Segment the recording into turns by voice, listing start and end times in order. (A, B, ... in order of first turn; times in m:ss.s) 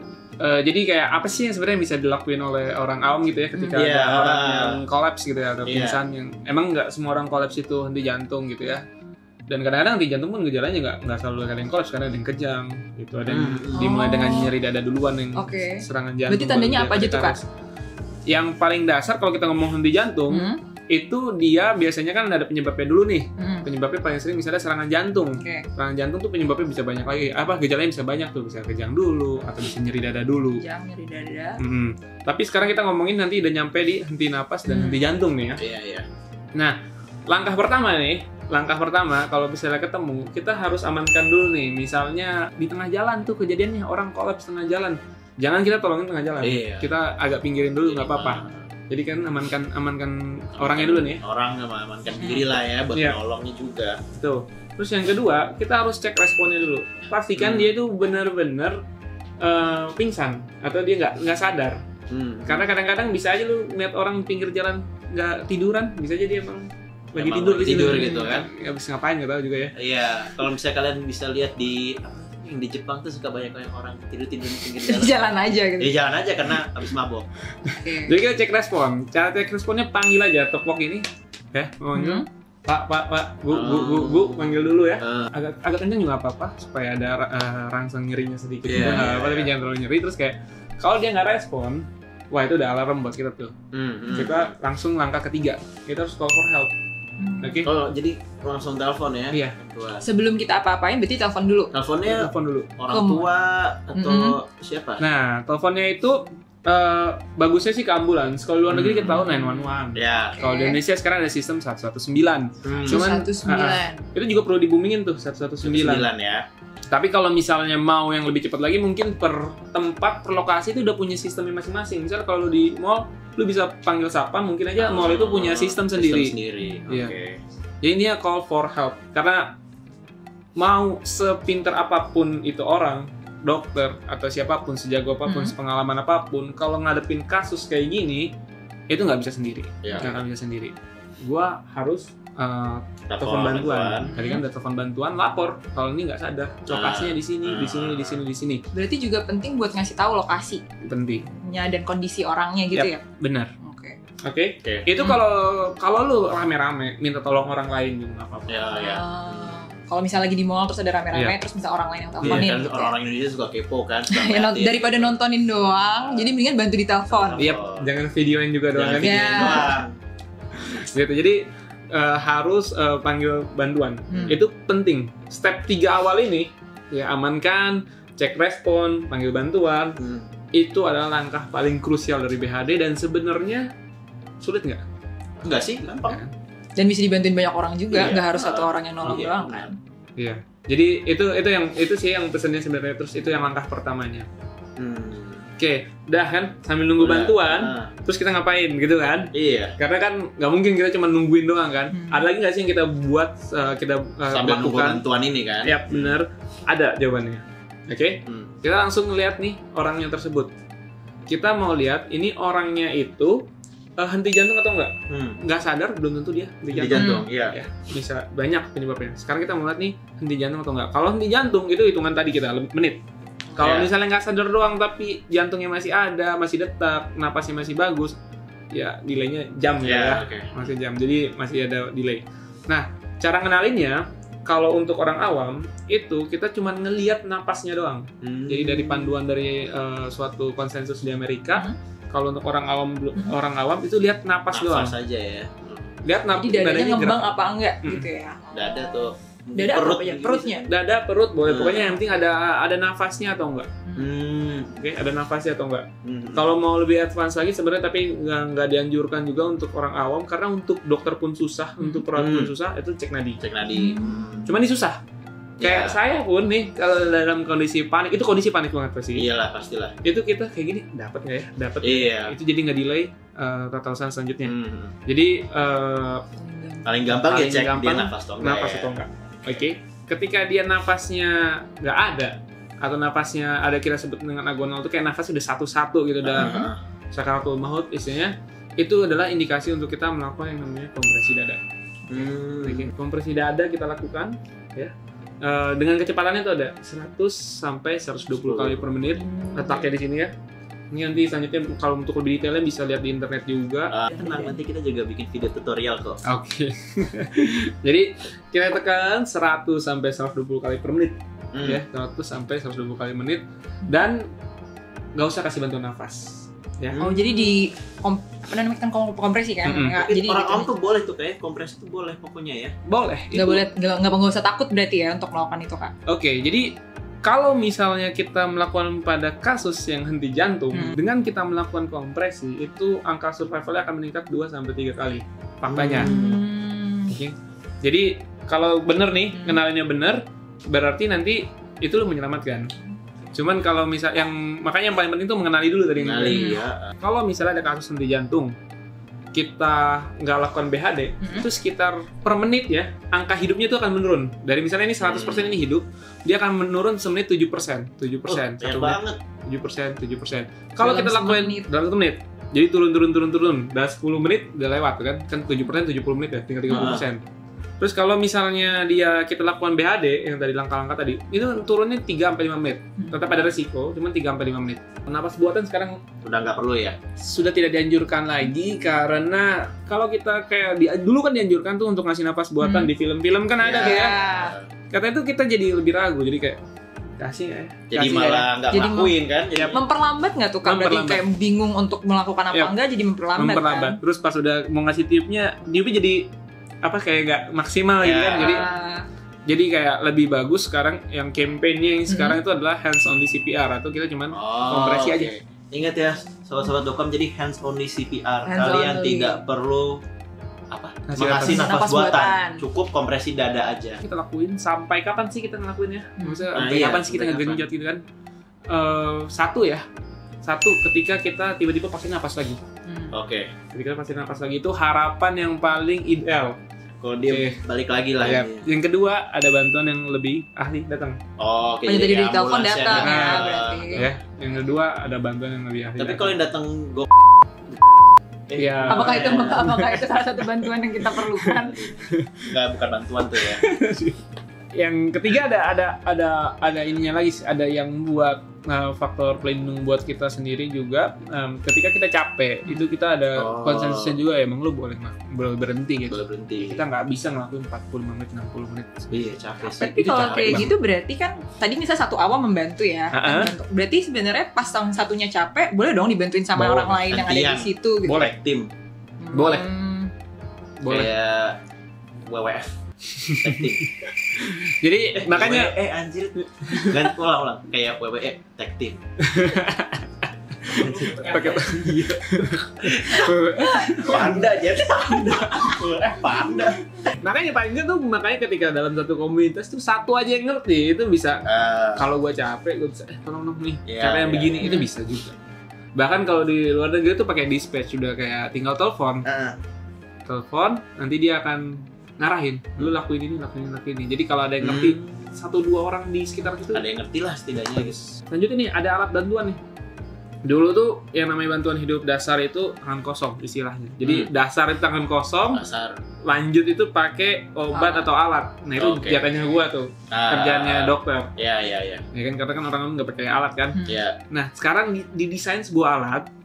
0:00.4-0:08.8 A
0:03.7-0:04.8 B
0:05.6-0:06.0 B
0:09.5-0:17.4 A
0:13.3-0:13.8 B
0:13.7-0:14.5 C
0:15.4-0:17.4 C
0:18.3-0:30.6 A
0:20.3-0:20.6 C
0:23.4-0:23.7 C
0:25.4-0:25.7 C
0:30.6-0:31.6 C
0:31.6-0:35.6 A
0:34.7-0:35.1 C
0:35.6-0:36.1 B
0:36.6-0:51.2 A
0:46.4-0:46.9 B
0:47.8-0:48.6 B
0:50.6-0:54.0 B
0:52.2-0:52.4 C
0:52.9-0:53.2 A
0:54.2-0:58.8 A
0:57.4-0:57.7 B
0:59.4-1:01.8 A
1:02.1-1:02.7 B
1:02.5-1:09.7 A
1:07.2-1:08.5 B
1:07.9-1:08.2 C
1:09.8-1:15.2 B
1:14.8-1:16.0 C
1:15.8-1:17.3 B
1:17.7-1:33.5 A
1:17.7-1:18.2 C
1:21.9-1:22.3 C
1:23.5-1:25.3 B
1:28.6-1:29.5 B
1:33.7-1:34.5 B
1:34.1-1:36.7 A
1:37.2-1:37.7 C
1:37.4-1:37.7 A
1:37.6-1:40.1 B
1:39.3-1:39.6 A
1:40.0-1:41.7 C
1:41.7-1:45.0 B
1:42.1-1:42.7 A
1:42.9-1:43.3 C
1:44.0-1:44.4 C
1:45.0-1:56.1 A
1:48.7-1:49.2 B
1:49.1-1:50.8 C
1:50.0-1:50.4 B
1:52.6-1:53.1 B
1:52.9-1:54.1 C
1:55.6-1:56.5 B
1:56.9-2:06.4 A
2:04.8-2:07.4 B
2:06.9-2:07.1 A
2:07.8-2:09.6 A
2:10.6-2:18.3 A
2:15.3-2:15.5 C
2:18.9-2:28.6 A
2:19.8-2:20.2 B
2:23.1-2:24.1 B
2:24.0-2:24.4 C
2:26.7-2:28.2 B
2:28.7-2:30.6 C
2:30.8-2:31.3 A
2:31.3-2:33.0 C
2:32.7-2:33.5 A
2:33.6-2:34.0 C
2:34.2-2:38.6 A
2:38.5-2:39.1 B
2:38.7-2:43.0 C
2:42.2-2:42.5 A
2:42.2-2:45.2 B
2:44.1-2:47.5 C
2:46.0-2:46.4 B
2:47.1-2:47.9 B
2:47.4-2:49.7 A
2:48.7-2:50.0 B
2:49.0-2:49.8 C
2:50.6-3:00.0 A
2:54.1-2:54.4 C
2:54.1-2:54.4 B
3:00.0-3:00.3 B
3:00.5-3:03.7 A
3:04.4-3:04.8 A
3:05.4-3:06.2 B
3:06.1-3:06.3 A
3:06.8-3:09.8 C
3:07.9-3:09.7 B
3:10.2-3:14.3 A
3:14.8-3:15.5 B
3:15.6-3:25.0 A
3:17.0-3:17.9 B
3:19.3-3:19.8 B
3:21.9-3:22.3 C
3:24.3-3:26.2 B
3:25.6-3:30.5 A
3:28.3-3:28.5 B
3:31.3-3:43.0 A
3:35.1-3:35.4 B
3:36.7-3:37.6 B
3:36.9-3:37.3 C
3:43.6-3:48.2 A
3:43.6-3:43.9 B
3:48.7-4:05.0 A
3:49.8-3:50.7 B
3:58.2-3:59.1 B
4:04.5-4:06.0 B
4:06.0-4:07.3 A
4:06.3-4:10.6 C
4:08.5-4:10.7 B
4:10.7-4:13.7 A
4:11.5-4:11.9 B
4:13.9-4:14.1 C
4:14.0-4:14.8 B
4:14.8-4:23.4 A
4:16.0-4:16.5 B
4:21.8-4:22.1 C
4:22.2-4:22.5 B
4:23.4-4:24.6 B
4:23.7-4:24.3 C
4:24.5-4:25.0 A
4:25.6-4:26.0 B
4:25.6-4:29.3 A
4:29.1-4:30.0 B
4:30.0-4:34.5 A
4:31.8-4:32.4 B
4:34.4-4:35.0 B
4:35.1-4:36.2 A
4:36.4-4:37.1 C
4:36.8-4:39.7 B
4:37.2-4:46.6 A
4:46.2-4:46.8 B
4:46.4-4:46.7 C
4:47.1-4:51.6 A
4:52.1-4:52.9 B
4:52.1-5:00.3 A
4:58.4-4:58.9 B
4:59.2-4:59.9 C
5:00.9-5:03.9 A
5:03.9-5:06.2 B
5:04.1-5:04.6 C
5:06.3-5:14.2 A
5:11.5-5:11.8 B
5:15.2-5:17.0 A
5:16.9-5:17.5 B
5:17.0-5:20.7 C
5:19.6-5:20.0 A
5:20.0-5:22.8 B
5:22.9-5:23.6 A
5:23.3-5:25.9 C
5:26.1-5:36.1 A
5:30.7-5:31.0 C
5:35.7-5:36.4 B
5:36.0-5:37.2 C
5:37.1-5:42.7 A
5:39.3-5:39.6 C
5:43.3-5:48.6 A
5:45.9-5:46.9 B
5:46.3-5:46.6 C
5:49.3-6:07.2 A
5:51.2-5:51.5 C
5:55.0-5:55.7 B
5:58.3-5:59.2 B
6:00.8-6:01.7 C
6:06.7-6:07.1 B
6:07.8-6:16.0 A
6:16.2-6:17.0 B
6:17.2-6:24.2 A
6:22.6-6:22.9 C
6:23.6-6:24.7 B
6:23.8-6:24.6 C
6:24.9-6:26.6 A
6:27.2-6:28.5 A
6:27.9-6:29.8 B
6:28.7-6:29.2 C
6:29.5-6:29.8 A
6:29.7-6:34.0 C
6:30.6-6:31.2 A
6:33.4-6:36.3 A
6:36.8-6:38.7 A
6:38.0-6:38.7 B
6:38.4-6:39.0 C
6:39.5-6:45.3 A
6:42.1-6:42.4 C
6:44.3-6:50.0 B
6:48.4-6:49.4 C
6:50.7-6:54.0 B
6:51.1-6:51.7 A
6:51.4-6:52.6 C
6:54.0-6:58.0 A
6:56.2-6:56.5 C
6:56.6-6:57.6 B
6:58.7-6:59.8 A
7:00.4-7:02.6 A
7:02.9-7:03.1 C
7:03.1-7:03.5 B
7:03.7-7:06.6 A
7:07.0-7:08.7 B
7:07.3-7:07.6 A
7:08.2-7:11.2 A
7:11.4-7:14.2 B
7:11.9-7:14.0 C
7:13.0-7:16.3 A
7:16.0-7:17.1 B
7:18.5-7:19.7 B
7:18.6-7:20.0 A
7:18.9-7:21.8 C
7:21.2-7:22.5 A
7:21.6-7:23.6 B
7:23.4-7:24.2 A
7:24.7-7:39.3 A
7:33.4-7:34.2 B
7:36.1-7:36.8 B
7:39.1-7:40.7 B
7:39.7-7:48.2 C
7:40.4-7:40.7 A
7:43.1-7:43.5 A
7:46.6-7:47.0 A
7:46.6-7:48.7 B
7:48.0-7:48.3 A
7:49.2-7:50.1 C
7:49.3-7:49.7 A
7:50.8-7:51.1 A
7:50.9-7:51.6 B
7:52.2-7:52.8 B
7:53.2-7:55.7 A
7:53.4-7:53.9 B
7:55.2-7:59.0 B
7:56.4-7:57.1 A
7:59.2-8:04.5 A
8:00.7-8:02.0 B
8:04.0-8:06.8 B
8:07.0-8:11.5 A
8:11.5-8:12.1 B
8:12.0-8:15.4 A
8:13.9-8:14.8 B
8:16.0-8:19.3 A
8:19.2-8:19.6 B
8:20.3-8:26.8 A
8:24.6-8:25.0 B
8:26.7-8:28.0 B
8:28.3-8:29.6 A
8:30.4-8:35.6 A
8:34.0-8:34.3 B
8:35.5-8:36.0 B
8:36.2-8:41.3 A
8:37.7-8:38.1 C
8:38.8-8:39.3 B
8:40.1-8:42.0 B
8:42.1-8:46.3 A
8:43.7-8:44.0 C
8:43.9-8:44.2 B